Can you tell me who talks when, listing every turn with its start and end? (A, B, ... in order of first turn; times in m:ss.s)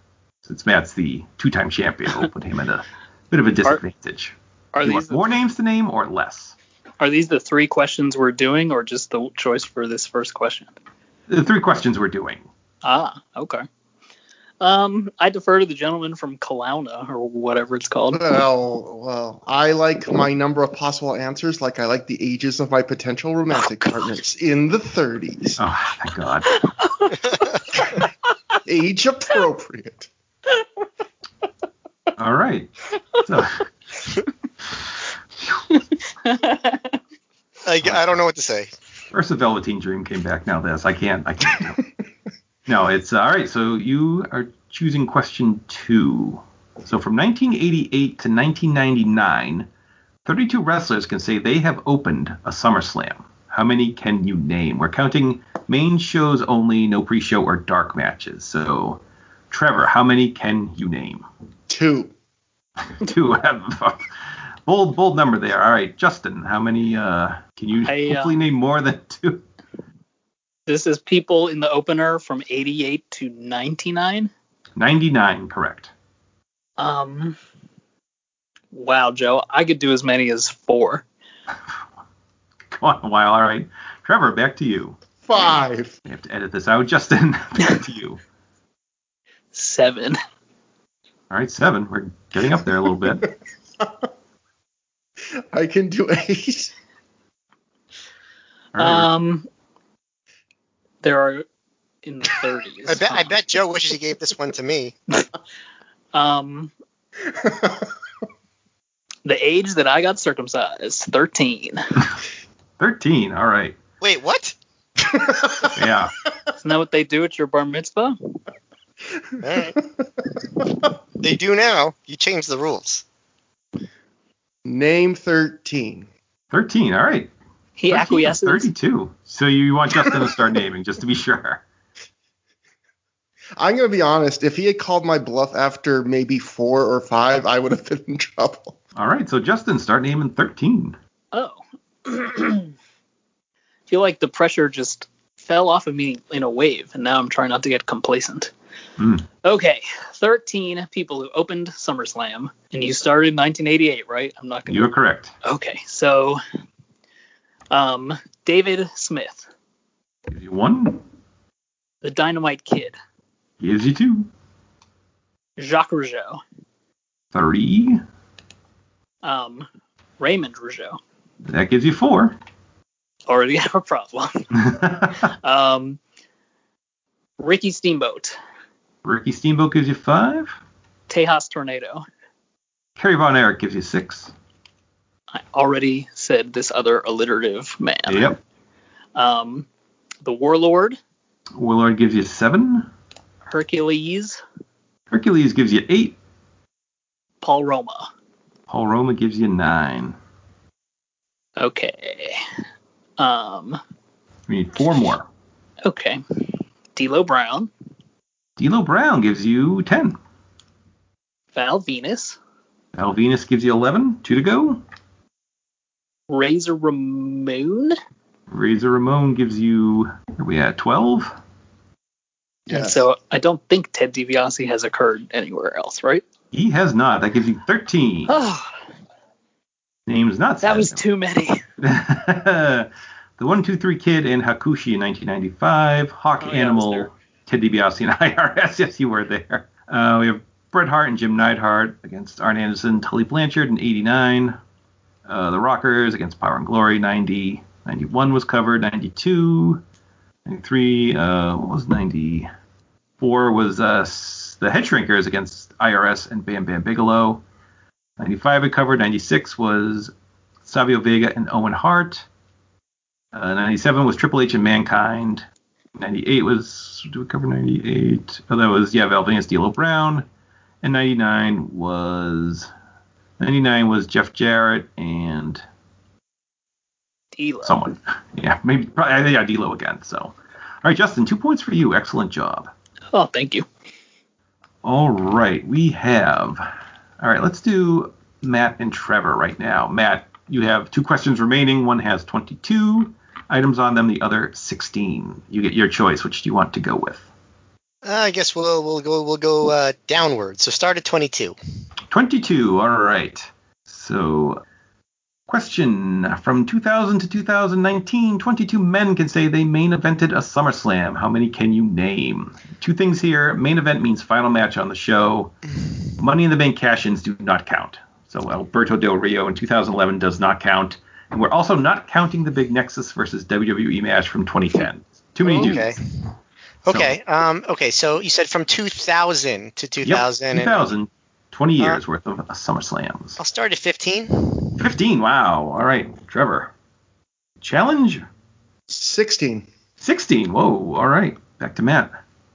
0:00.4-0:06.5 A
0:04.7-0:05.2 B
0:07.0-0:10.7 B
0:11.3-0:12.4 A
0:12.8-0:13.6 B
0:14.6-0:18.3 B
0:18.1-0:25.6 C
0:23.6-0:23.9 B
0:25.6-0:26.6 A
0:26.5-0:28.0 B
0:28.6-0:30.1 C
0:32.2-0:33.6 A
0:35.7-0:37.0 B
0:37.6-0:38.7 D
0:37.8-0:38.1 A
0:39.1-0:41.9 A
0:42.6-0:49.7 A
0:50.2-1:01.2 A
1:01.7-1:02.1 C
1:03.0-1:04.1 A
1:04.6-1:09.4 A
1:07.8-1:08.4 B
1:10.7-1:14.3 B
1:14.8-1:15.9 A
1:16.8-1:17.4 B
1:18.7-1:21.0 B
1:22.7-1:25.0 A
1:25.2-1:26.0 C
1:26.0-1:28.2 A
1:29.5-1:30.2 B
1:31.3-1:33.3 A
1:33.8-1:34.1 C
1:35.4-1:36.7 C
1:38.7-1:39.1 A
1:38.8-1:39.5 B
1:41.0-1:41.4 B
1:42.0-1:43.3 B
1:42.9-1:44.9 D
1:46.1-1:46.7 B
1:47.2-1:47.9 C
1:49.2-1:51.8 B
1:52.8-1:53.8 A
1:54.0-1:54.6 D
1:55.0-1:55.8 C
1:55.7-1:56.1 A
1:56.6-1:58.4 B
1:59.4-1:59.8 D
2:01.2-2:03.0 D
2:04.6-2:06.1 C
2:06.5-2:07.3 A
2:07.8-2:08.7 B
2:07.9-2:11.6 A
2:13.6-2:18.7 C
2:19.0-2:21.0 A
2:21.3-2:22.7 B
2:23.9-2:28.5 B
2:29.0-2:29.2 A
2:29.4-2:34.9 B
2:34.7-2:35.3 A
2:35.4-2:36.4 B
2:37.7-2:39.5 B
2:40.3-2:41.0 A
2:42.0-2:43.0 B
2:43.6-2:44.3 A
2:45.6-2:46.4 B
2:47.3-2:48.0 A
2:49.2-2:49.7 B
2:50.2-2:51.0 B
2:51.4-2:52.4 A
2:53.3-2:54.5 B
2:54.6-2:55.2 A
2:55.2-2:56.0 B
2:57.4-2:58.4 B
2:59.0-3:00.6 A
3:01.1-3:02.0 B
3:03.0-3:04.3 A
3:05.3-3:08.3 B
3:08.1-3:08.4 A
3:09.1-3:09.7 B
3:10.2-3:11.0 B
3:11.6-3:12.9 A
3:13.5-3:14.4 B
3:15.1-3:16.1 A
3:17.4-3:18.1 B
3:18.7-3:20.2 A
3:21.6-3:22.4 B
3:23.2-3:23.8 B
3:24.5-3:25.2 A
3:25.8-3:26.2 B
3:26.9-3:27.7 B
3:28.6-3:30.2 A
3:31.5-3:32.4 B
3:32.9-3:34.8 A
3:36.3-3:38.0 B
3:38.5-3:41.3 A
3:42.7-3:43.0 C
3:42.7-3:46.2 B
3:46.5-3:48.3 A
3:48.3-3:48.7 B
3:50.1-3:51.0 A
3:50.6-3:51.6 B
3:51.8-4:04.6 A
3:56.4-3:57.1 B
4:05.3-4:09.8 A
4:10.4-4:12.5 A
4:13.2-4:17.4 A
4:18.2-4:20.1 A
4:20.6-4:22.2 A
4:23.3-4:25.4 A
4:26.0-4:30.2 A
4:30.8-4:32.7 A
4:33.4-4:35.6 A
4:37.3-4:37.8 B
4:37.6-4:42.7 A
4:43.1-4:43.6 B
4:44.8-4:46.6 A
4:47.2-4:57.2 A
4:58.0-5:01.6 D
5:02.1-5:04.6 A
5:05.5-5:15.5 A
5:16.2-5:25.9 A
5:25.4-5:26.0 D
5:26.8-5:30.9 D
5:30.0-5:33.4 A
5:33.4-5:34.8 D
5:34.8-5:36.7 A
5:37.6-5:38.2 A
5:38.9-5:39.7 C
5:40.0-5:42.1 A